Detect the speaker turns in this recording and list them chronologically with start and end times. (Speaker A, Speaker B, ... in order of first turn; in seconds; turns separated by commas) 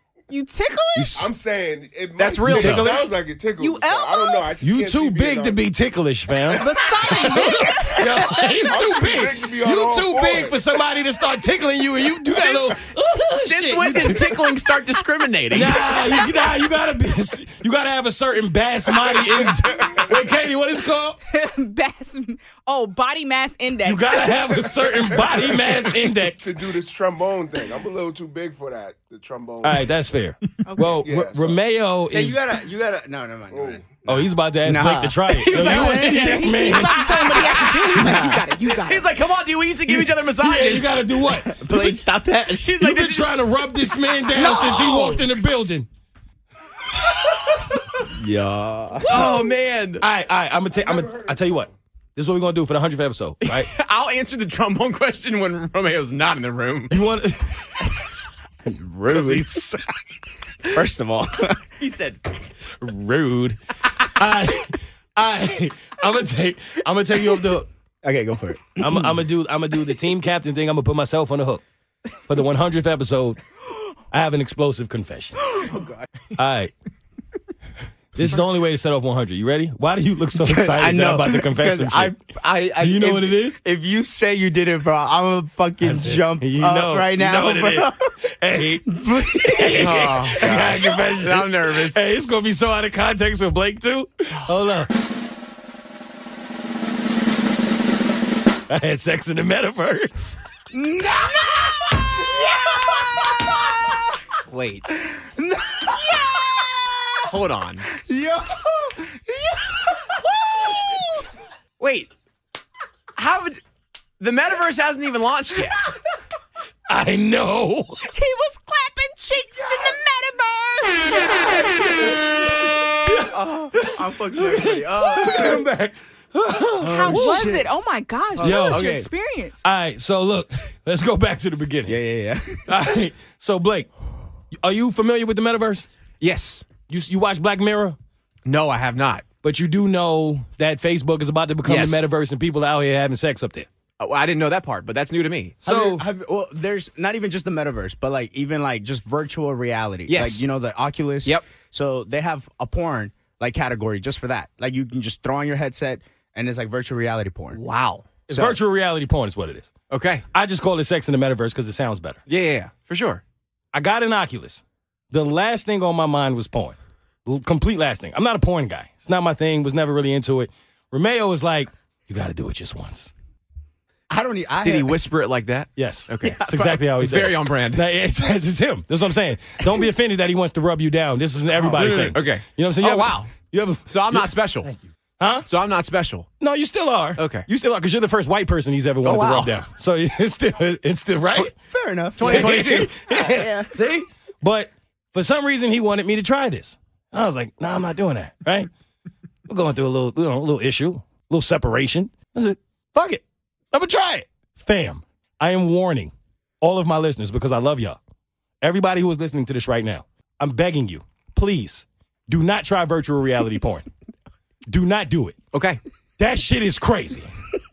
Speaker A: 0.3-1.3, Speaker B: 0.9-1.3, Speaker C: 1.1-5.7, Speaker D: 2.1-3.0, Speaker B: 2.4-3.1, Speaker A: 3.6-4.5, Speaker B: 4.6-14.2, Speaker C: 6.4-10.8, Speaker A: 6.5-8.4, Speaker D: 12.3-12.8, Speaker D: 13.4-15.9, Speaker B: 15.5-21.2, Speaker A: 15.8-16.6, Speaker C: 18.9-20.1, Speaker A: 21.3-24.3, Speaker B: 23.8-26.6, Speaker C: 24.2-29.9, Speaker B: 29.6-32.4, Speaker A: 30.6-31.1, Speaker C: 30.9-31.6, Speaker E: 32.1-35.9, Speaker C: 33.5-34.0, Speaker B: 34.1-37.5, Speaker D: 35.3-41.1, Speaker A: 35.5-39.1, Speaker E: 38.0-38.4, Speaker B: 39.9-41.9, Speaker E: 41.4-42.7, Speaker D: 42.6-43.4, Speaker B: 42.8-45.9, Speaker D: 44.2-45.2, Speaker E: 48.1-49.4, Speaker D: 49.0-50.0, Speaker B: 50.0-53.7, Speaker D: 53.4-57.0, Speaker B: 56.9-57.9, Speaker B: 58.6-59.8, Speaker D: 59.1-59.4, Speaker E: 60.7-61.7, Speaker D: 61.8-62.2, Speaker B: 62.8-67.7, Speaker E: 68.0-69.2, Speaker B: 68.8-71.6, Speaker B: 72.3-73.4, Speaker B: 74.1-75.6, Speaker E: 75.5-76.1, Speaker B: 76.4-76.7, Speaker B: 78.1-82.1, Speaker E: 80.4-88.1, Speaker B: 82.8-83.6, Speaker B: 85.8-94.9, Speaker E: 88.9-90.3, Speaker D: 89.7-92.0, Speaker B: 98.7-100.4, Speaker E: 100.7-103.9, Speaker D: 104.5-104.9, Speaker E: 104.9-107.2, Speaker D: 107.3-107.9, Speaker E: 107.9-110.7, Speaker D: 111.8-112.1, Speaker D: 113.2-113.6, Speaker D: 114.2-115.8, Speaker B: 116.9-118.0, Speaker A: 118.1-122.2, Speaker E: 123.3-125.7, Speaker B: 123.8-127.4, Speaker E: 126.8-127.7, Speaker A: 126.8-129.6, Speaker E: 128.4-129.1, Speaker B: 128.4-129.0, Speaker B: 129.6-131.9, Speaker E: 131.8-132.7, Speaker B: 132.7-133.9, Speaker B: 134.5-135.8, Speaker D: 136.2-136.7, Speaker B: 136.8-138.0, Speaker D: 138.4-139.2, Speaker B: 139.4-143.7, Speaker D: 141.6-142.1, Speaker D: 144.0-145.6, Speaker B: 145.6-146.0, Speaker E: 145.6-157.6, Speaker D: 150.1-150.4, Speaker D: 157.5-158.4, Speaker E: 158.3-158.6, Speaker B: 158.3-159.7, Speaker D: 159.9-160.2, Speaker B: 160.3-162.2, Speaker D: 162.3-163.2, Speaker B: 163.7-173.1, Speaker E: 174.1-175.0, Speaker D: 174.6-177.8, Speaker B: 175.8-185.5, Speaker E: 176.2-176.8, Speaker D: 181.6-183.3, Speaker D: 183.9-184.7, Speaker D: 185.5-186.3, Speaker B: 186.4-191.5, Speaker D: 187.2-187.5, Speaker D: 189.0-189.6, Speaker E: 191.4-193.7, Speaker D: 192.2-192.9, Speaker B: 192.2-198.7, Speaker B: 199.5-208.0, Speaker B: 208.6-213.9, Speaker B: 214.7-215.4, Speaker D: 215.5-215.8, Speaker B: 216.2-217.3